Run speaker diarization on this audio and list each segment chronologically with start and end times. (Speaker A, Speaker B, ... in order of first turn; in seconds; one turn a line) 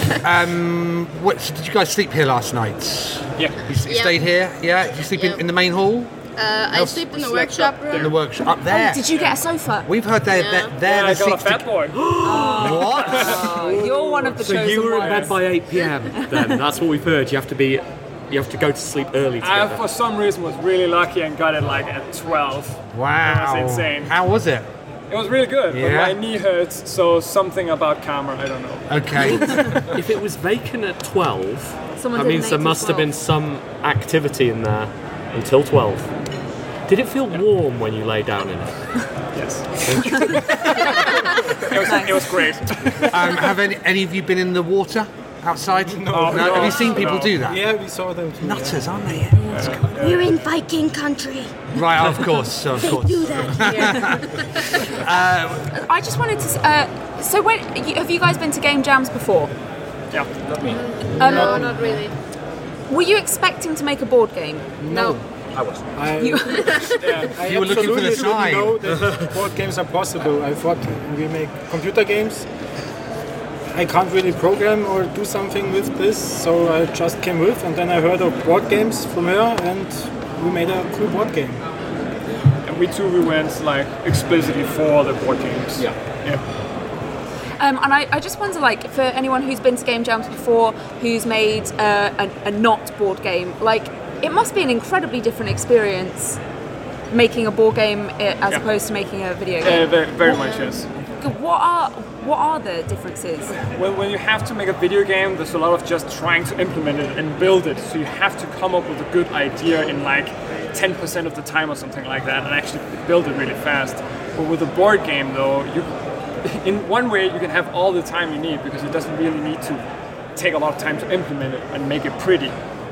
Speaker A: 0.2-6.1
Speaker B: 3.9-4.2
Speaker B: 5.1-5.4
Speaker B: 6.4-8.1
Speaker A: 6.7-9.1
Speaker C: 7.7-8.1
Speaker D: 8.7-9.9
Speaker A: 9.8-11.7
Speaker B: 10.3-10.8
Speaker C: 10.8-12.0
Speaker E: 11.9-13.0
Speaker D: 12.2-15.5
Speaker A: 12.5-13.5
Speaker C: 13.8-14.4
Speaker E: 14.4-19.9
Speaker C: 14.9-15.3
Speaker C: 19.4-24.1
Speaker A: 22.9-24.6
Speaker C: 25.1-29.7
Speaker A: 25.7-26.2
Speaker A: 28.9-29.8
Speaker E: 29.9-36.1
Speaker D: 32.0-33.1
Speaker E: 36.9-38.8
Speaker C: 39.3-39.9
Speaker E: 39.8-40.5
Speaker D: 40.1-42.2
Speaker C: 41.5-43.1
Speaker A: 43.1-47.7
Speaker F: 45.8-48.8
Speaker C: 46.1-47.4
Speaker A: 48.4-50.2
Speaker C: 49.5-50.3
Speaker B: 49.9-51.5
Speaker A: 51.7-55.7
Speaker B: 52.8-54.9
Speaker D: 55.7-59.5
Speaker D: 61.2-61.8
Speaker F: 61.2-62.1
Speaker D: 62.9-65.2
Speaker F: 64.8-65.2
Speaker F: 65.9-72.4
Speaker D: 66.2-67.0
Speaker C: 67.0-67.3
Speaker A: 67.4-68.8
Speaker E: 68.9-69.3
Speaker F: 73.7-81.6
Speaker C: 82.6-86.4
Speaker D: 87.6-96.4
Speaker D: 97.1-100.5
Speaker C: 99.6-100.9
Speaker D: 101.2-103.5
Speaker C: 103.7-115.9
Speaker C: 116.4-119.8
Speaker C: 120.3-122.5